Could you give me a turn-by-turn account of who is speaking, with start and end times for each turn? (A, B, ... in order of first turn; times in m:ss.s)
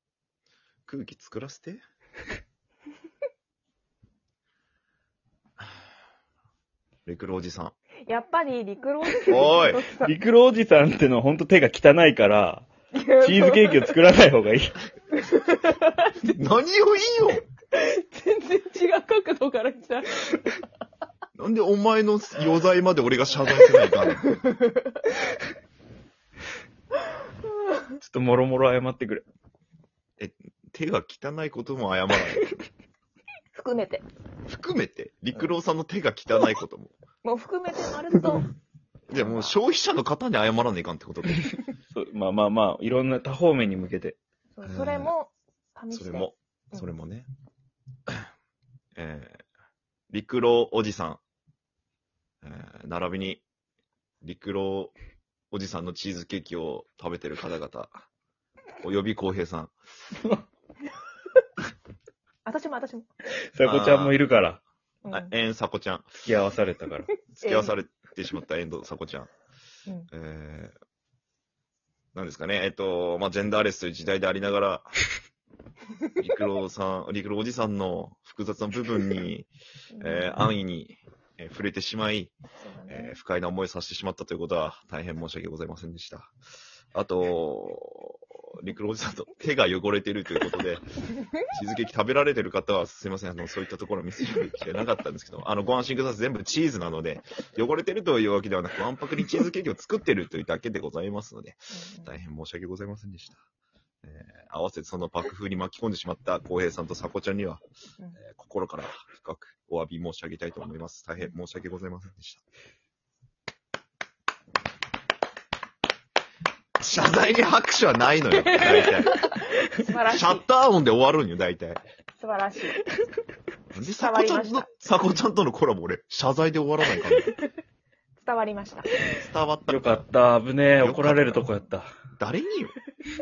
0:00.9-0:01.8 A
0:07.1-0:07.7 A
0:08.1-0:10.2 B
0:09.3-0:09.8 A
0:09.9-0:12.7 C
0:12.9-0:14.0 B
0:13.2-0:14.8 C
0:15.1-0:16.4 B
0:16.2-0:17.5 A
0:17.7-0:20.5 B
0:21.4-0:24.3 A
0:23.5-0:25.2 B
0:28.0-0:29.2 C
0:30.2-0:32.6 A
0:33.5-0:34.0 B
0:34.5-0:37.0 A
0:37.2-0:38.5 B
0:39.1-0:41.5 A
0:39.1-0:39.6 B
0:41.9-0:44.2 C
0:44.6-0:46.9 B
0:44.6-0:45.1 A
0:45.9-0:47.3 A
0:49.0-0:49.4 A
0:50.1-0:51.2 A
0:52.4-0:53.4 A
0:54.2-0:54.9 A
0:55.5-0:57.9 A
0:58.8-0:59.7 A
1:02.5-1:03.1 B
1:03.5-1:04.6 C
1:03.6-1:04.2 A
1:05.0-1:05.3 B
1:05.1-1:06.1 A
1:06.2-1:07.1 C
1:07.3-1:07.8 B
1:07.4-1:09.3 A
1:10.1-1:10.7 A
1:12.1-1:15.0 A
1:16.2-1:22.4 A
1:19.9-1:20.5 B
1:22.6-1:23.2 B
1:22.9-1:26.3 A
1:26.9-1:30.9 A
1:31.5-1:43.4 A
1:41.7-1:42.2 B
1:44.0-1:47.6 A
1:48.2-1:52.4 A
1:56.8-1:59.2 A
1:58.5-2:00.5 B
2:00.1-2:01.8 A
2:02.2-2:02.8 B
2:03.7-2:07.4 A
2:03.8-2:04.7 B
2:08.2-2:09.1 B
2:09.1-2:10.0 A
2:09.7-2:11.9 C
2:10.8-2:11.5 A
2:12.2-2:12.7 A